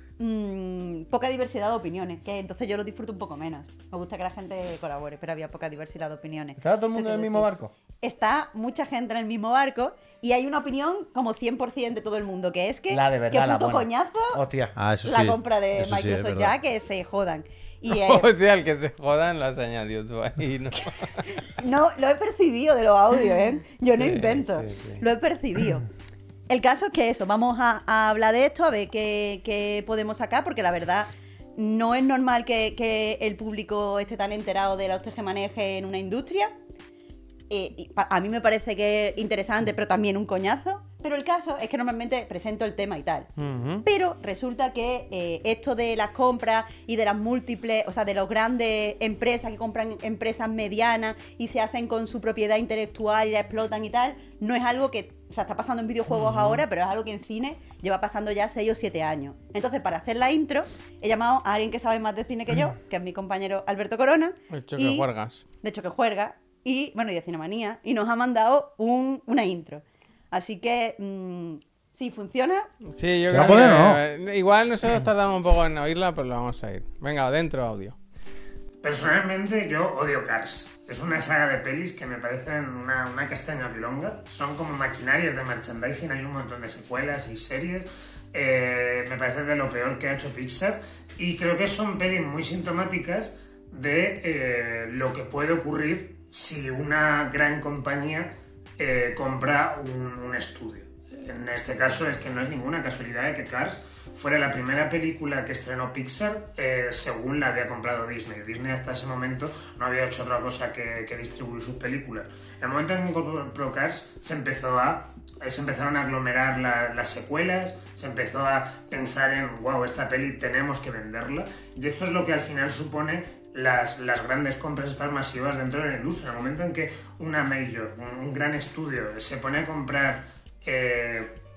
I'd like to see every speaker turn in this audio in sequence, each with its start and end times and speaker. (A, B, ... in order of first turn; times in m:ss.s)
0:00.2-0:07.5 A
0:06.6-0:07.7 B
0:08.0-0:14.4 A
0:12.9-0:14.8 B
0:14.8-0:16.5 C
0:15.0-0:18.3 A
0:17.9-0:21.1 D
0:21.3-0:25.9 A
0:24.0-0:25.0 D
0:26.5-0:36.5 A
0:37.5-0:43.3 A
0:43.4-0:43.8 D
0:43.8-1:05.1 A
1:04.5-1:05.4 D
1:05.6-1:12.7 A
1:12.9-1:18.0 D
1:13.3-1:14.0 C
1:18.8-2:11.3 E